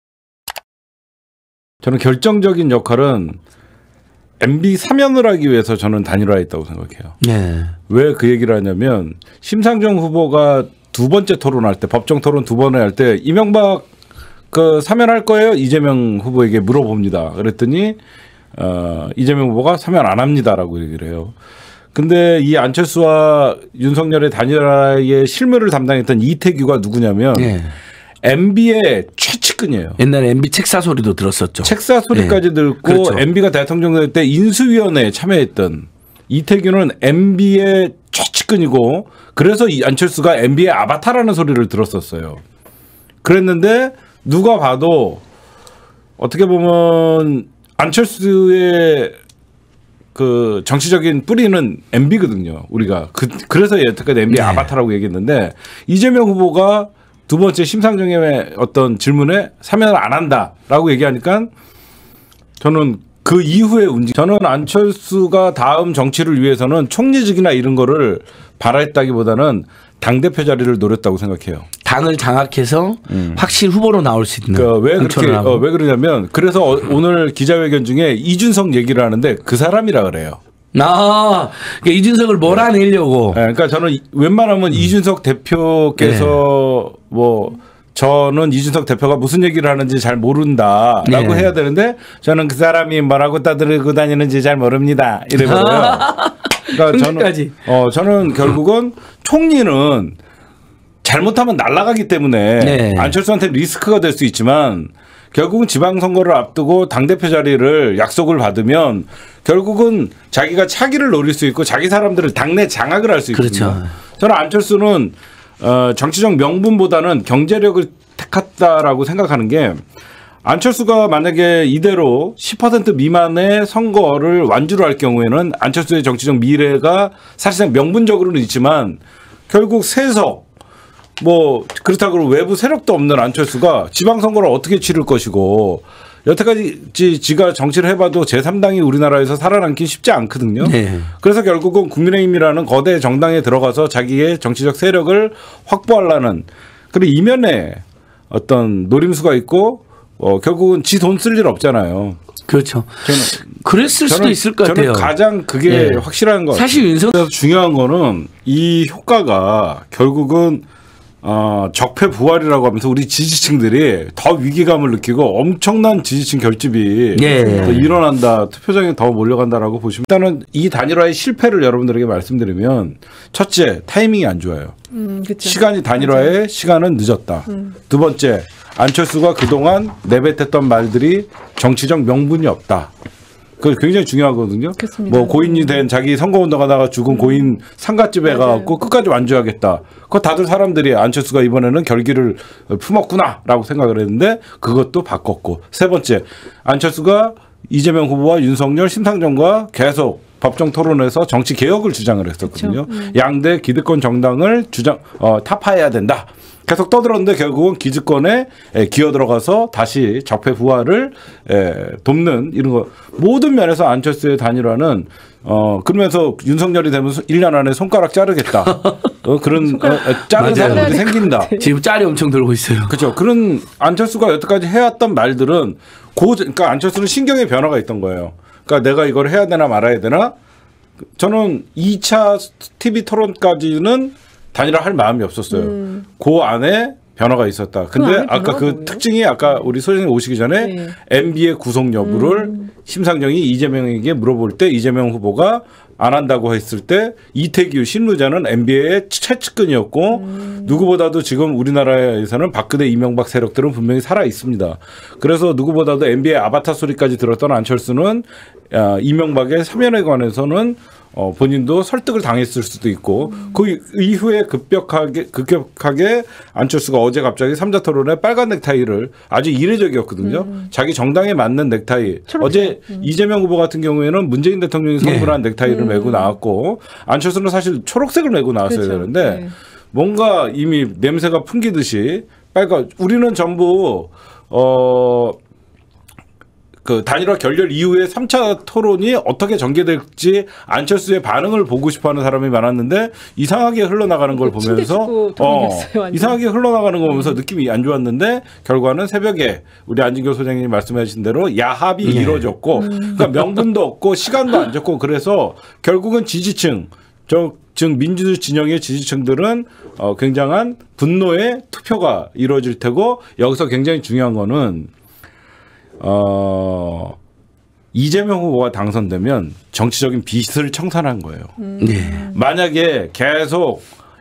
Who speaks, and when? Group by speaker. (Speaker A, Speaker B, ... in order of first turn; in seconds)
Speaker A: 1.8-3.4, 4.4-7.2, 7.9-13.9, 14.5-18.0, 18.5-21.3, 21.9-27.5, 28.2-30.0, 31.6-42.4, 43.2-45.2, 46.2-49.1, 50.1-61.5, 62.6-71.7, 73.1-73.5, 74.5-80.4, 83.3-96.1, 96.7-100.2, 101.0-119.8, 120.4-130.4, 131.2-152.2, 153.0-153.5, 154.0-160.6, 161.2-174.7, 175.4-182.9, 183.6-221.5, 222.9-230.3, 231.2-285.4, 286.8-314.9, 316.0-317.2, 317.9-321.5, 322.3-323.9
Speaker B: 7.2-7.7, 27.3-27.7, 30.0-33.2, 54.3-54.7, 71.8-75.6, 80.7-83.4, 86.0-86.4, 91.0-91.5, 95.3-97.5, 102.6-103.2, 113.3-113.9, 140.6-141.1, 152.5-155.1, 155.7-157.2, 167.1-167.9, 220.3-223.0, 275.0-275.4, 302.0-302.5, 321.8-322.3
Speaker C: 167.4-167.7, 174.9-176.3, 184.8-185.9, 187.1-187.4, 188.2-188.8, 202.4-203.2, 219.6-221.7, 235.5-236.0, 237.9-239.0, 240.6-240.9, 242.0-242.7, 250.1-250.9, 270.2-270.7, 272.3-273.1, 275.6-276.3, 278.6-279.5, 294.3-296.4, 297.0-297.4, 302.7-303.3, 321.6-322.4